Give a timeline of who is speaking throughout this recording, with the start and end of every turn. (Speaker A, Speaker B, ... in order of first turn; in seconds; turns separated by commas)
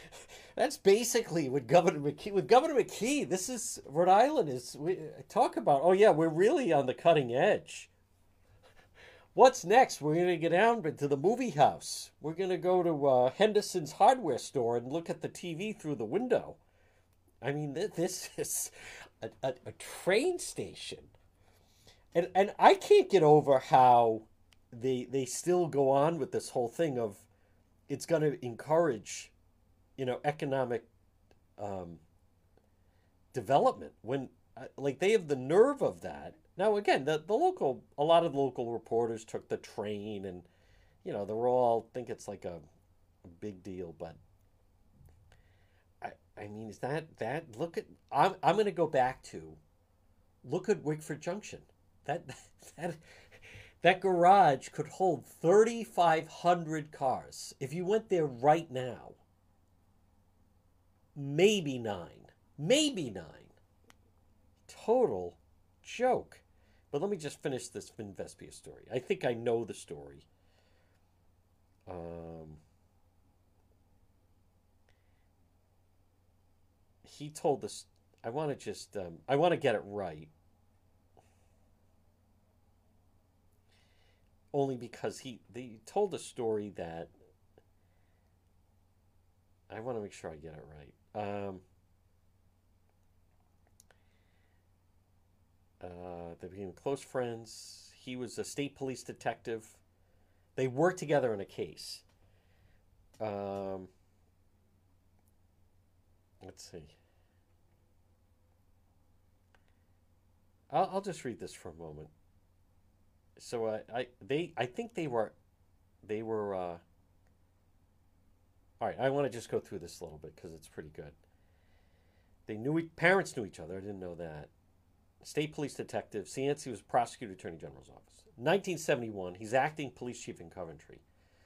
Speaker A: 0.6-7.9, Speaker A: 9.3-16.6, Speaker A: 17.4-21.1, Speaker A: 22.1-27.2, Speaker A: 27.9-29.3, Speaker A: 30.0-30.9, Speaker A: 31.6-32.0, Speaker A: 33.3-40.5, Speaker A: 41.0-42.6, Speaker A: 43.2-44.2, Speaker A: 46.0-49.6, Speaker A: 50.4-53.0, Speaker A: 53.8-59.2, Speaker A: 61.1-63.5, Speaker A: 64.7-70.3, Speaker A: 71.9-72.6, Speaker A: 77.0-80.3, Speaker A: 84.5-87.1, Speaker A: 89.7-91.6, Speaker A: 95.8-99.8, Speaker A: 100.5-102.0, Speaker A: 103.2-103.9, Speaker A: 106.4-106.9, Speaker A: 110.7-112.1, Speaker A: 113.4-115.3, Speaker A: 116.0-116.8, Speaker A: 118.8-121.1, Speaker A: 122.5-124.5, Speaker A: 125.2-131.0